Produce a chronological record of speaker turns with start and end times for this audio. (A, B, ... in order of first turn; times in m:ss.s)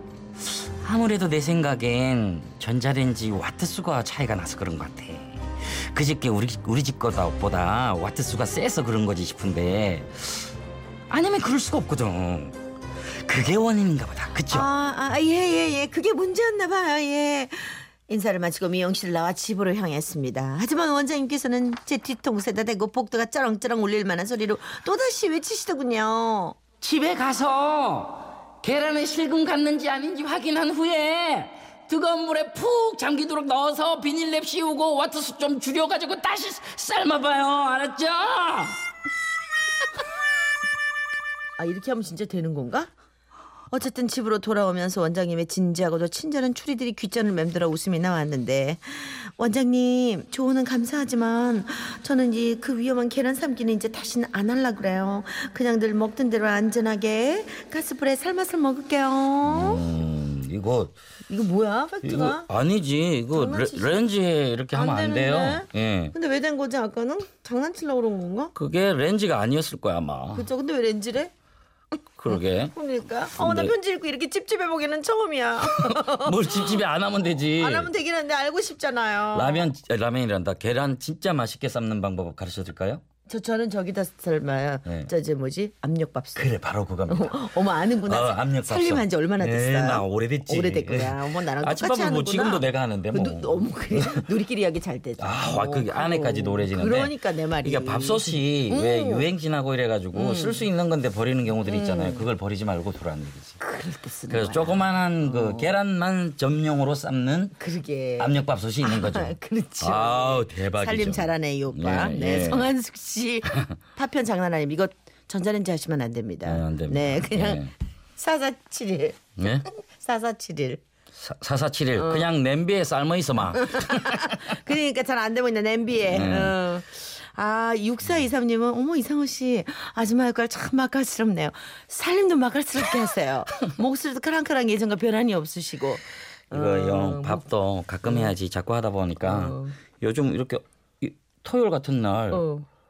0:00.4-0:10.5 A
0:11.1-0:12.6 A
0:13.2-0:14.7 A
0:14.5-0:26.6 B
0:26.8-0:38.8 A
0:41.6-0:42.9 B
0:43.7-0:59.8 B
0:59.4-1:01.0 A
1:01.3-1:02.5 B
1:02.0-1:06.1 A
1:03.3-1:04.0 B
1:04.7-1:08.5 B
1:08.5-1:10.5 A
1:10.3-1:11.3 B
1:12.2-1:12.7 A
1:12.3-1:16.8 B
1:13.3-1:13.7 A
1:15.8-1:17.9 A
1:17.5-1:19.7 B
1:19.3-1:23.0 A
1:23.3-1:26.5 B
1:24.8-1:25.1 A
1:26.4-1:34.2 A
1:27.1-1:39.3 B
1:35.2-1:43.6 A
1:40.1-1:40.7 B
1:41.6-1:42.2 B
1:43.6-1:45.7 B
1:44.3-1:47.6 A
1:47.6-2:00.8 B
1:48.2-1:52.7 A
1:56.4-1:57.7 A
1:59.4-1:59.6 A
2:01.2-2:04.4 A
2:02.0-2:02.2 B
2:03.5-2:17.4 B
2:06.0-2:06.6 A
2:16.5-2:22.5 A
2:19.2-2:19.8 B
2:22.3-2:22.6 B